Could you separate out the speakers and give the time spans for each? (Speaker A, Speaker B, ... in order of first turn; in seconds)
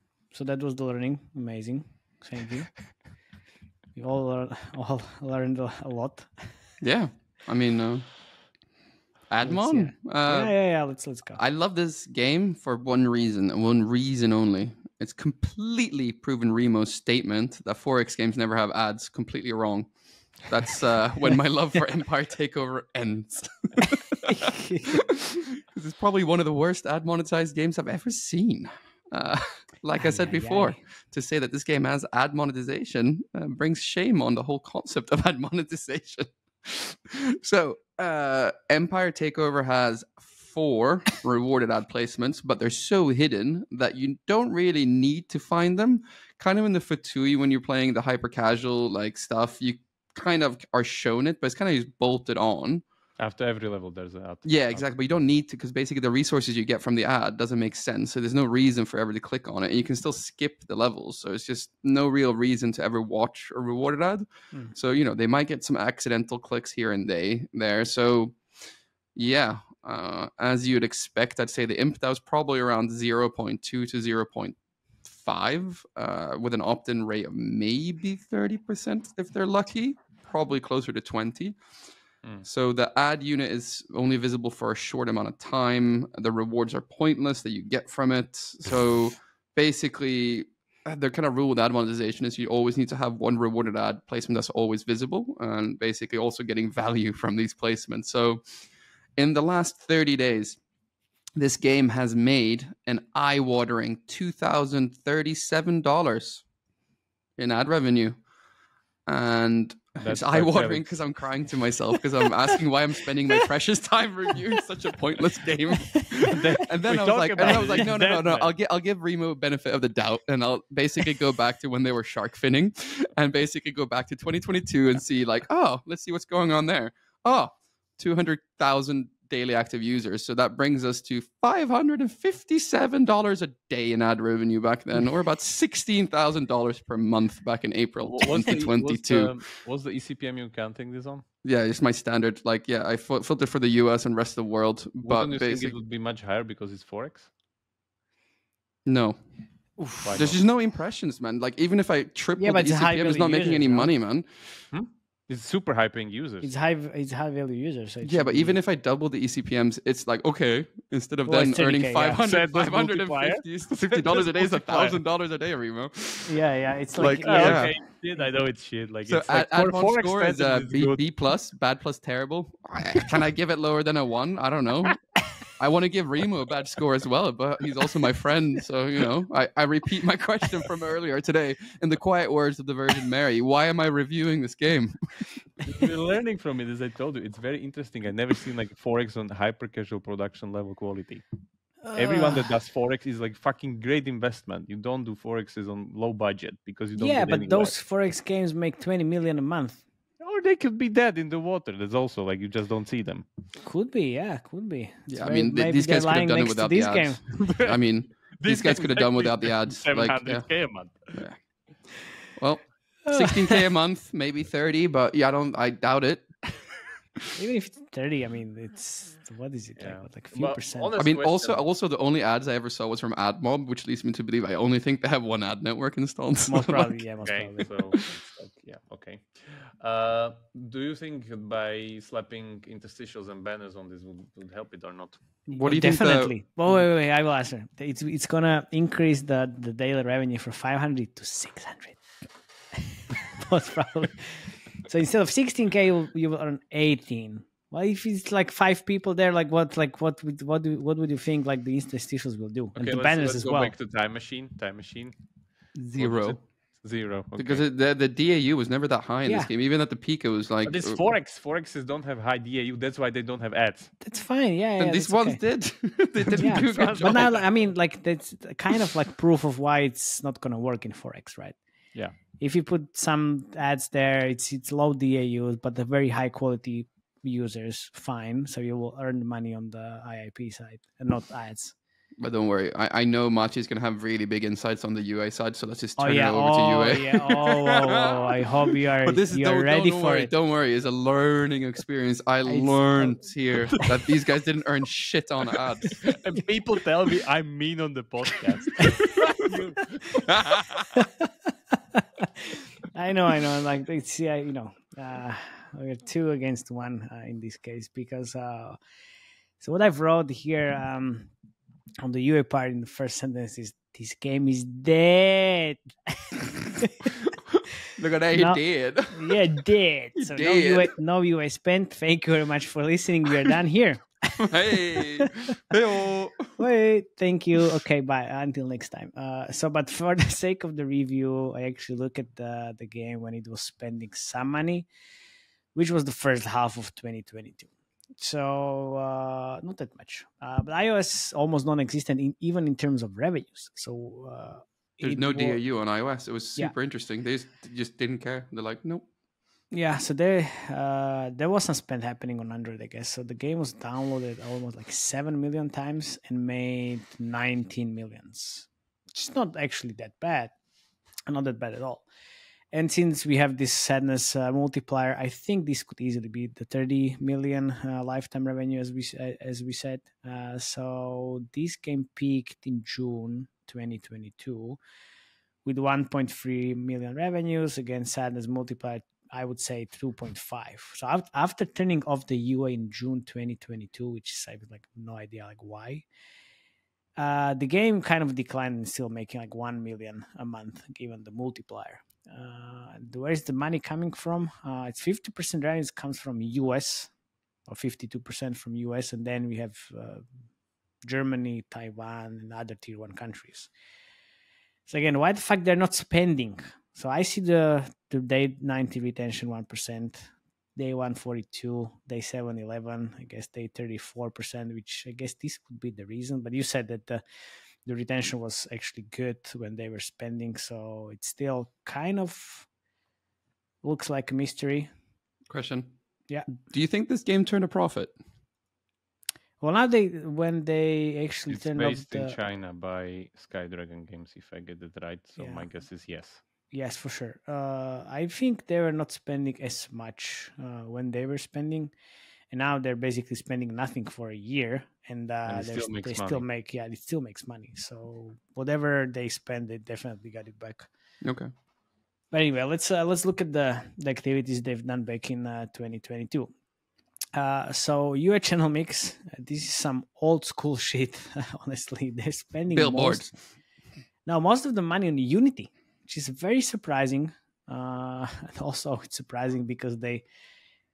Speaker A: 0.3-2.9, 4.0-6.5, 9.4-11.4, 24.2-24.9, 29.9-30.8, 117.4-117.8, 152.4-153.9, 156.4-158.6, 161.3-162.3, 166.3-167.8, 191.8-192.5, 197.0-199.8, 203.6-207.2, 213.1-213.6, 217.3-221.0, 226.5-227.7, 235.5-242.0, 243.2-253.8, 259.2-259.5, 264.0-265.4, 266.4-271.6, 272.4-281.8, 286.0-290.3, 292.5-293.2, 298.8-299.1, 301.0-301.3, 301.9-308.8, 309.6-311.3, 312.0-317.1, 318.3-325.2, 326.6-334.9, 335.8-345.6, 349.7-360.5, 361.3-362.1, 362.7-374.8, 375.6-386.1, 387.2-397.1, 397.7-400.2, 401.0-403.7, 404.9-417.2, 417.9-422.7, 423.8-424.9, 429.6-432.4, 435.4-435.7, 436.7-441.9, 442.5-450.9, 452.3-456.5, 457.3-463.3, 464.3-470.2
Speaker B: 6.8-8.2, 9.3-10.7, 11.4-24.3, 24.9-52.8, 54.5-68.6, 69.2-81.6, 82.4-98.4, 99.2-100.6, 101.4-106.5, 107.4-108.2, 109.1-139.4, 141.4-145.8, 148.8-149.2, 149.8-154.7, 158.0-166.4, 166.9-167.8, 169.1-175.0, 175.6-185.1, 205.1-211.4, 212.3-216.4, 221.0-227.0, 235.6-236.4, 255.8-256.4, 257.4-261.0, 264.8-267.4, 282.2-288.3, 289.0-296.0, 300.3-301.0, 317.9-319.4, 320.2-320.9, 324.4-326.6, 345.0-349.1, 425.5-425.9, 426.5-428.1, 451.2-451.5, 462.7-463.3
Speaker C: 53.2-55.0, 110.0-111.4, 116.3-118.5, 138.0-141.2, 145.0-147.3, 150.0-150.4, 154.7-156.5, 162.2-165.0, 167.2-171.0, 185.7-191.2, 191.9-197.8, 200.2-203.3, 207.4-207.8, 208.4-211.2, 219.8-221.7, 227.2-235.6, 252.8-255.2, 256.0-257.6, 260.6-263.9, 266.2-267.5, 296.0-300.2, 431.5-436.4, 445.5-446.4